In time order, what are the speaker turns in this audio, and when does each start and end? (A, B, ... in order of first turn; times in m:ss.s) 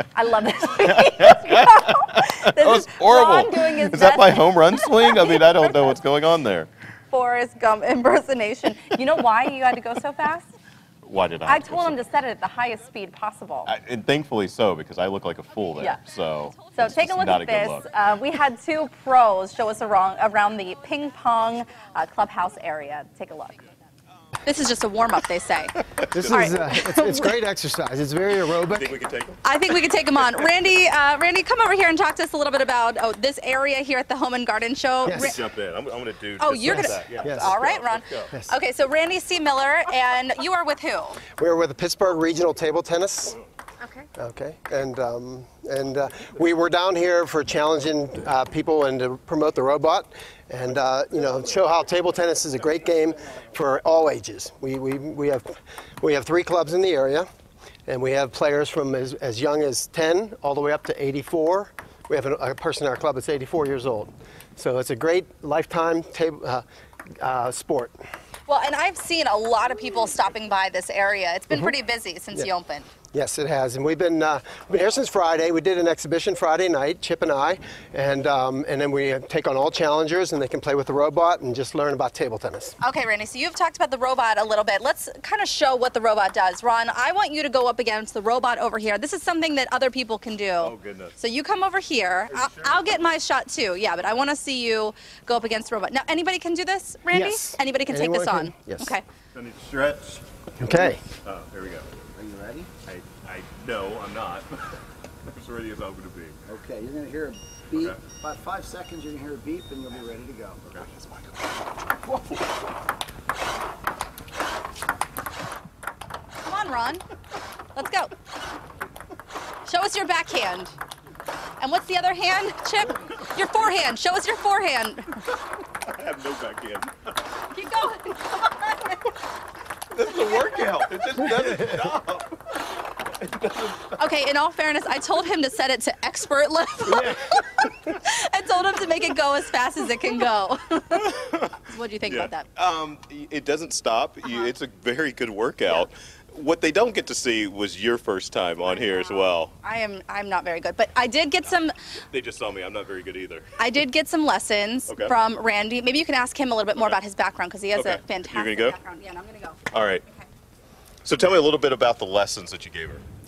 0:00.1-0:06.0 A
0:00.8-0:06.7 B
0:07.1-0:10.5 A
0:11.0-0:12.0 B
0:11.5-0:13.7 A
0:13.7-0:17.8 B
0:16.7-0:23.7 A
0:24.4-0:27.4 A
0:25.9-0:26.7 B
0:26.1-0:29.0 C
0:28.6-0:29.4 B
0:29.4-0:35.4 A
0:35.0-0:35.3 C
0:35.1-0:38.3 B
0:36.4-0:41.2 A
0:36.7-0:37.6 C
0:41.4-0:43.4 C
0:43.8-0:44.1 A
0:44.2-0:57.3 C
0:57.9-1:06.6 C
1:07.2-1:08.0 C
1:08.5-1:12.9 A
1:13.1-1:22.8 C
1:22.8-1:39.0 A
1:30.6-1:31.2 B
1:32.3-1:33.0 B
1:37.1-1:39.0 C
1:39.3-1:41.9 B
1:40.6-1:41.0 C
1:42.2-1:42.7 D
1:42.8-1:46.4 B
1:46.5-1:50.7 D
1:47.7-1:48.0 B
1:50.7-1:51.4 B
1:56.4-1:57.0 A
1:57.7-1:58.1 A
1:59.6-2:00.8 A
2:01.6-2:05.1 A
2:05.9-2:06.9 B
2:07.5-2:09.0 A
2:09.9-2:12.6 B
2:13.2-2:14.0 B
2:14.0-2:22.5 A
2:16.9-2:17.2 B
2:21.0-2:29.5 B
2:28.6-2:31.8 A
2:32.1-2:33.5 B
2:33.6-2:40.3 A
2:34.9-2:35.1 B
2:37.7-2:38.8 B
2:39.7-2:40.0 B
2:41.0-2:43.0 B